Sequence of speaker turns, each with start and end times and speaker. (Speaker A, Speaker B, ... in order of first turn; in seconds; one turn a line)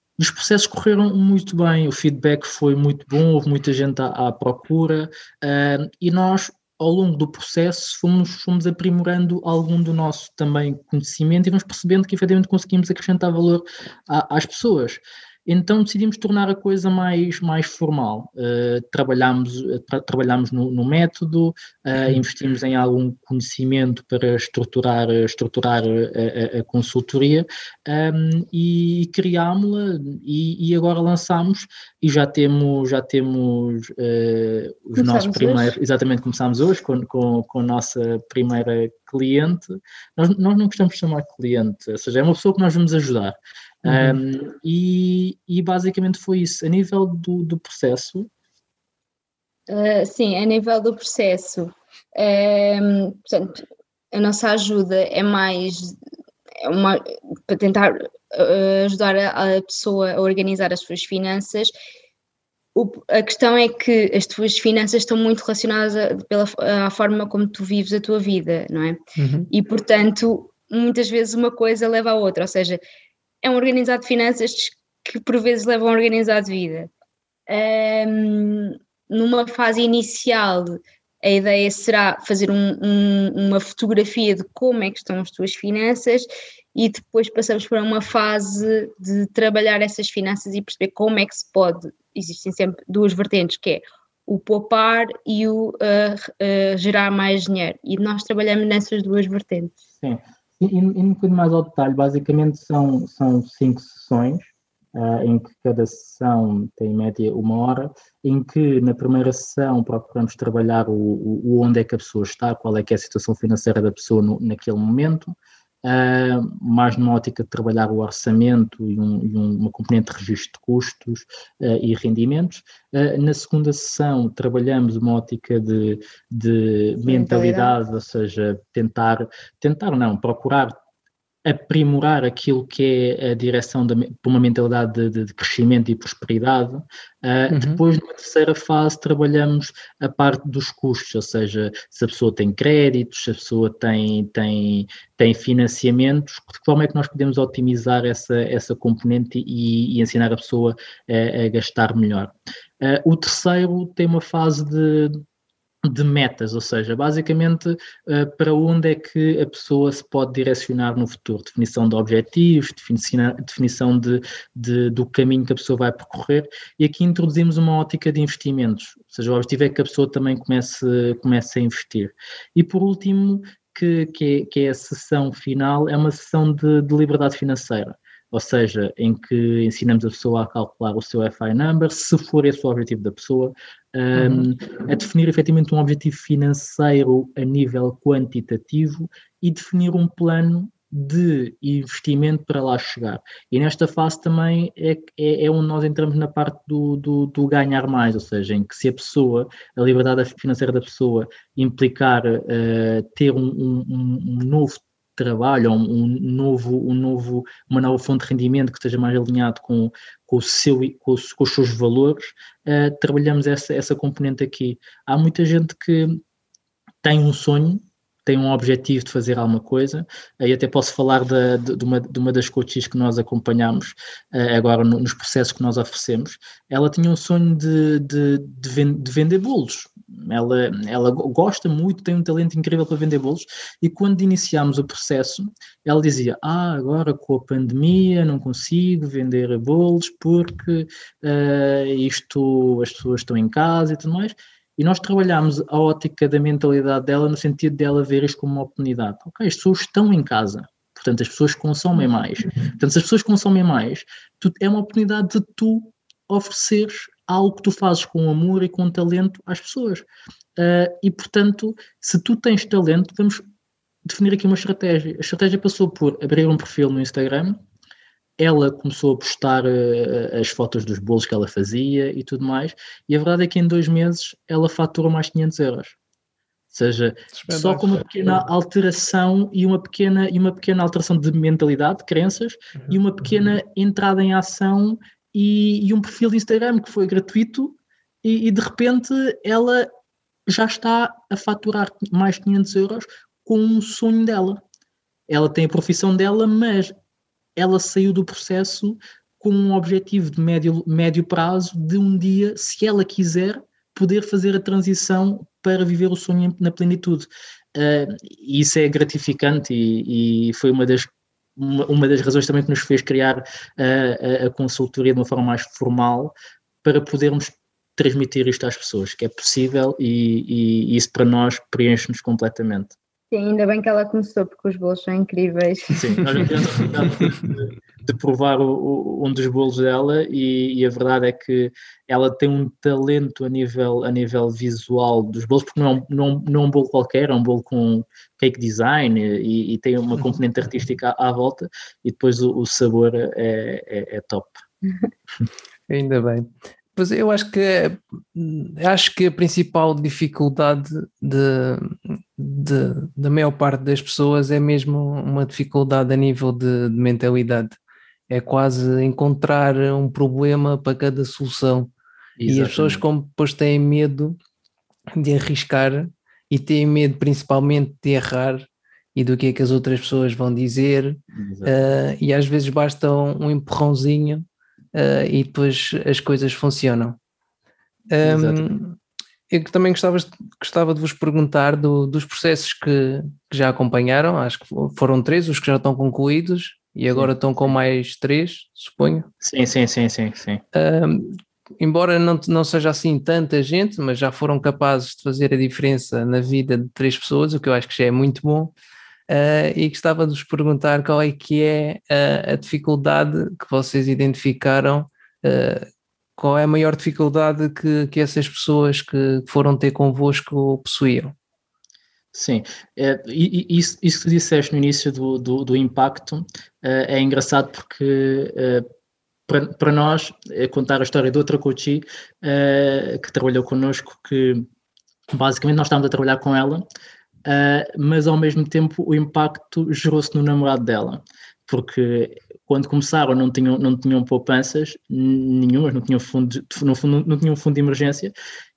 Speaker A: 0.2-48.3
Speaker B: 35.0-35.8
Speaker C: 43.9-44.2
Speaker B: 49.7-56.0
Speaker B: 56.6-61.7
Speaker B: 62.8-69.0
Speaker C: 69.2-69.5
Speaker B: 69.5-72.8
Speaker B: 73.4-76.9
Speaker B: 77.5-99.8
Speaker A: 99.9-130.8
Speaker B: 127.0-127.8
Speaker A: 131.4-155.2
Speaker C: 137.5-137.8
Speaker A: 155.8-216.2
Speaker C: 184.2-184.5
Speaker A: 217.0-260.1
Speaker A: 260.6-263.4
Speaker A: 264.1-267.6
Speaker A: 268.4-276.0
Speaker A: 276.7-289.9
Speaker C: 277.4-278.1
Speaker A: 290.5-294.6
Speaker A: 295.3-296.9
Speaker A: 297.6-323.0
Speaker B: 323.3-326.2
Speaker A: 325.9-344.6
Speaker C: 326.7-327.5
Speaker C: 345.9-357.8
Speaker C: 358.3-361.9
Speaker A: 362.4-363.0
Speaker C: 362.5-364.4
Speaker C: 365.2-377.2
Speaker A: 371.3-372.0
Speaker C: 378.1-379.0
Speaker A: 378.2-378.7
Speaker C: 379.5-389.3
Speaker A: 387.1-387.8
Speaker A: 389.4-390.6
Speaker C: 390.7-398.7
Speaker C: 399.3-411.3
Speaker A: 412.3-418.9
Speaker A: 419.5-424.7
Speaker A: 425.3-426.8
Speaker A: 427.4-438.3